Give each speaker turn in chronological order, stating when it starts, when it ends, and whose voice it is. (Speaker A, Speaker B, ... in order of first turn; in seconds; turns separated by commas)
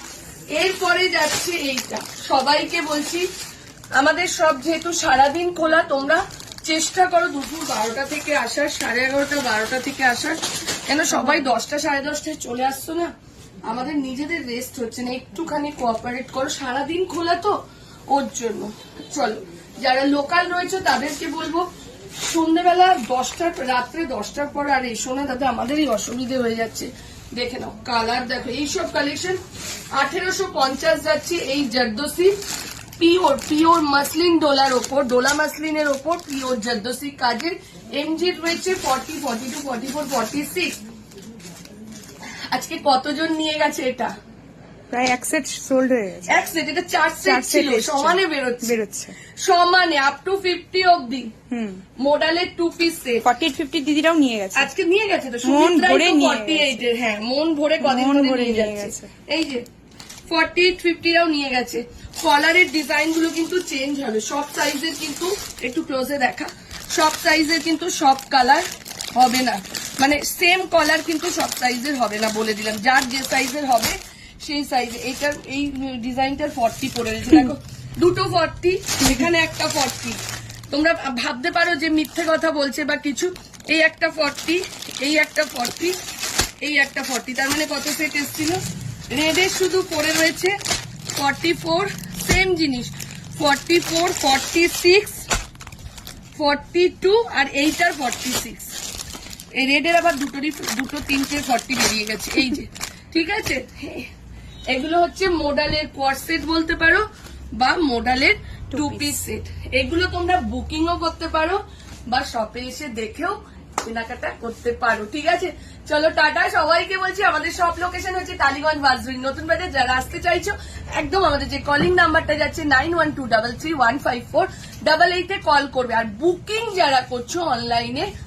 Speaker A: 0.5-3.3, Speaker A: 3.9-13.1, Speaker A: 13.7-17.6, Speaker A: 18.1-29.4, Speaker A: 29.9-32.3, Speaker A: 33.0-40.8, Speaker A: 42.5-44.1, Speaker B: 44.9-46.4, Speaker A: 46.3-48.8, Speaker B: 47.2-49.1, Speaker A: 49.4-51.3, Speaker B: 51.5-51.8, Speaker A: 52.0-53.2, Speaker B: 53.2-54.7, Speaker A: 54.5-59.6, Speaker B: 55.4-56.9, Speaker B: 57.8-59.1, Speaker A: 60.3-86.0, Speaker B: 79.0-79.3, Speaker A: 86.6-90.5, Speaker A: 91.1-95.3, Speaker A: 96.3-98.7, Speaker A: 99.5-104.1, Speaker A: 104.7-128.1, Speaker B: 108.7-109.2